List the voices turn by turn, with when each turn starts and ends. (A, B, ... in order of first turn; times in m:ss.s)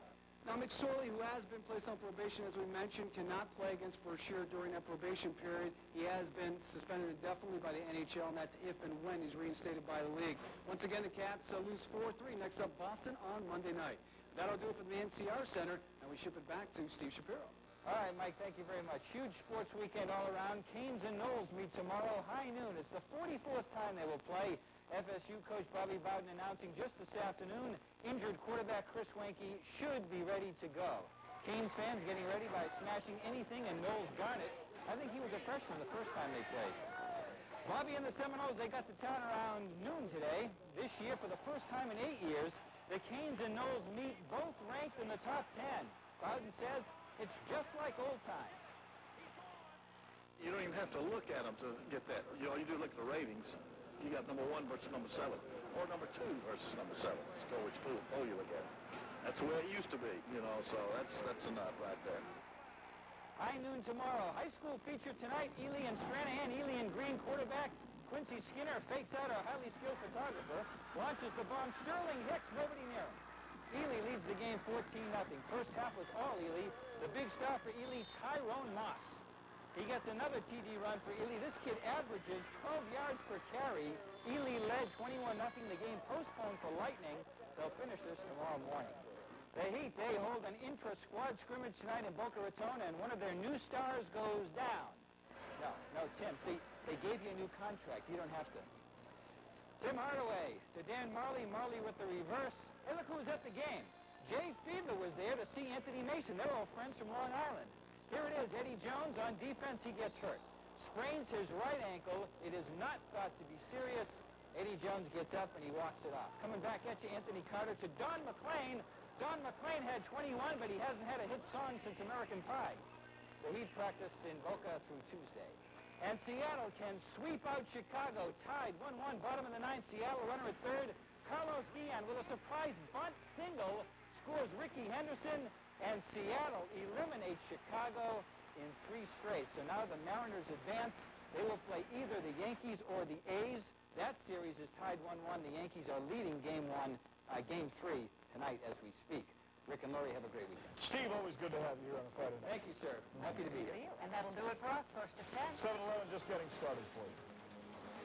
0:00.4-0:17.5 A
0:17.8-0:36.8 B
0:37.6-0:48.8 B
0:50.4-0:58.7 C
0:59.2-1:02.3 C
1:03.4-1:19.2 B
1:19.7-1:29.0 B
1:29.5-1:35.0 B
1:35.6-1:38.7 B
1:39.8-2:02.8 B
2:03.4-2:30.8 B
2:30.8-2:33.2 D
2:32.4-2:33.8 B
2:33.2-2:35.6 E
2:35.5-2:37.2 D